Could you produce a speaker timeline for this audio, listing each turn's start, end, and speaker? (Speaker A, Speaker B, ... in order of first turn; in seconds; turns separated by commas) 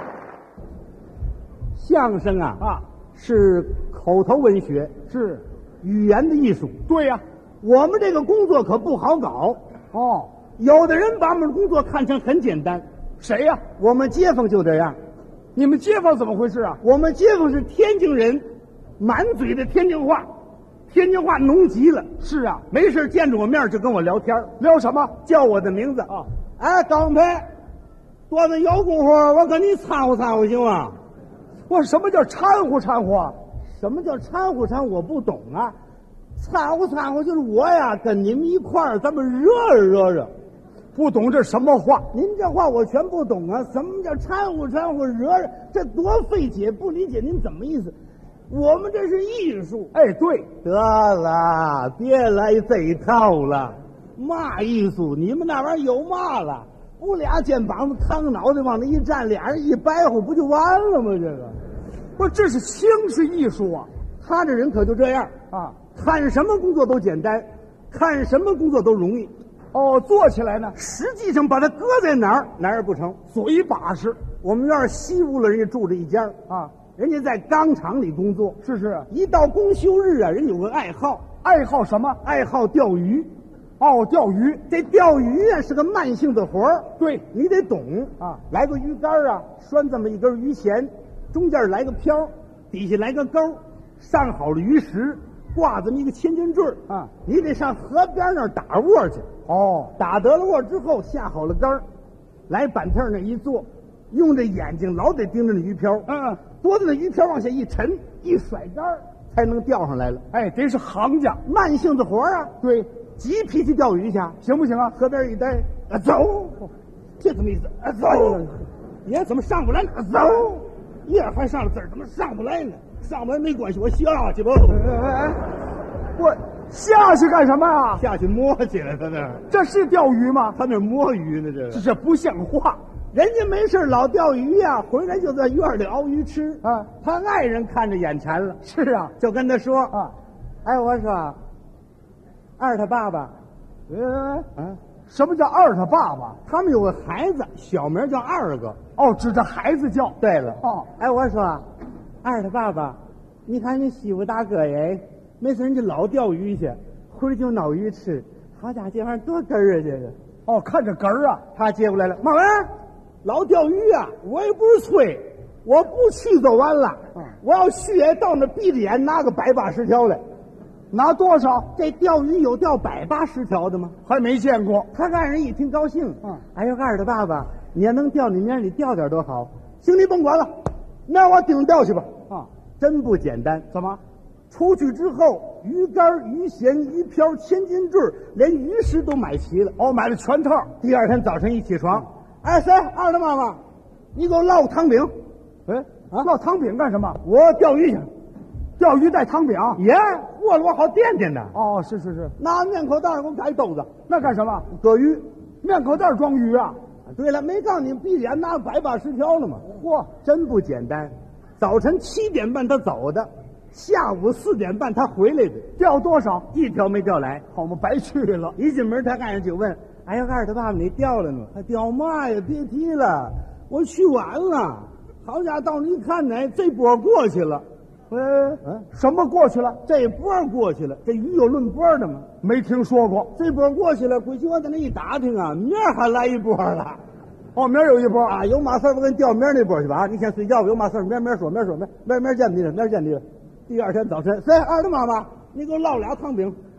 Speaker A: 1.8-4.9, Speaker B: 5.1-5.4, Speaker A: 5.8-6.8, Speaker B: 6.9-7.2, Speaker A: 7.6-9.6, Speaker B: 9.9-10.3, Speaker A: 10.6-12.9, Speaker B: 13.2-13.6, Speaker A: 13.8-15.0, Speaker B: 15.6-16.8, Speaker A: 16.8-18.5, Speaker A: 19.0-20.3, Speaker A: 20.9-22.1, Speaker B: 22.2-22.6, Speaker A: 22.7-24.5, Speaker B: 24.6-25.2, Speaker A: 25.2-27.5, Speaker A: 28.3-31.0, Speaker B: 31.7-33.4, Speaker A: 33.7-35.8, Speaker A: 36.4-40.3, Speaker B: 41.0-42.1, Speaker A: 42.1-48.0, Speaker A: 48.5-49.9, Speaker B: 49.9-50.5, Speaker A: 50.6-61.6, Speaker B: 62.2-63.9, Speaker A: 64.2-65.3, Speaker A: 65.9-69.3, Speaker B: 69.7-70.8, Speaker A: 70.8-73.2, Speaker B: 73.3-74.2, Speaker A: 74.4-76.4, Speaker A: 76.9-81.2, Speaker B: 78.6-79.1, Speaker B: 81.4-82.2, Speaker A: 82.2-83.3, Speaker B: 83.8-84.6, Speaker A: 84.7-99.3, Speaker B: 87.0-87.2, Speaker B: 99.5-99.9, Speaker A: 100.0-101.8, Speaker A: 102.5-110.2, Speaker B: 106.1-106.4, Speaker B: 110.3-111.4, Speaker A: 111.4-112.5, Speaker B: 112.6-112.9, Speaker A: 113.2-114.4, Speaker B: 114.4-114.9, Speaker A: 114.9-124.9, Speaker B: 118.1-118.4, Speaker B: 124.8-125.4, Speaker B: 126.2-128.0, Speaker A: 128.0-129.4, Speaker B: 129.5-130.6, Speaker A: 130.5-131.8, Speaker B: 131.7-132.8, Speaker A: 133.1-138.6, Speaker B: 136.6-136.9, Speaker B: 138.6-139.1, Speaker A: 139.2-140.0, Speaker A: 140.6-141.4, Speaker A: 142.6-143.3, Speaker B: 143.9-144.5, Speaker B: 145.1-146.4, Speaker A: 146.4-148.8, Speaker B: 149.0-150.9, Speaker A: 150.2-151.7, Speaker A: 152.2-160.2, Speaker B: 160.5-161.4, Speaker A: 161.5-162.7, Speaker A: 163.2-170.2, Speaker B: 170.9-171.7, Speaker A: 171.7-174.0, Speaker B: 174.1-174.9, Speaker A: 174.9-180.5, Speaker A: 181.1-182.1, Speaker A: 182.8-183.7, Speaker B: 183.7-184.0, Speaker A: 184.5-189.8, Speaker B: 189.8-190.7, Speaker A: 190.8-193.6, Speaker A: 194.1-195.1, Speaker B: 195.7-197.2, Speaker A: 197.2-198.1, Speaker B: 198.8-199.8, Speaker A: 199.8-201.6, Speaker B: 201.5-202.3, Speaker A: 202.4-203.9, Speaker B: 204.1-204.7, Speaker A: 204.7-205.2, Speaker B: 205.6-206.8, Speaker A: 207.1-209.7, Speaker B: 209.6-210.1, Speaker A: 210.2-215.7, Speaker B: 215.8-216.5, Speaker A: 216.5-217.4, Speaker B: 217.5-218.5, Speaker A: 218.6-227.6, Speaker B: 228.1-229.8, Speaker A: 228.6-228.9, Speaker A: 229.8-232.3, Speaker B: 232.4-233.3, Speaker A: 233.3-237.0, Speaker B: 237.6-238.4, Speaker A: 238.2-246.6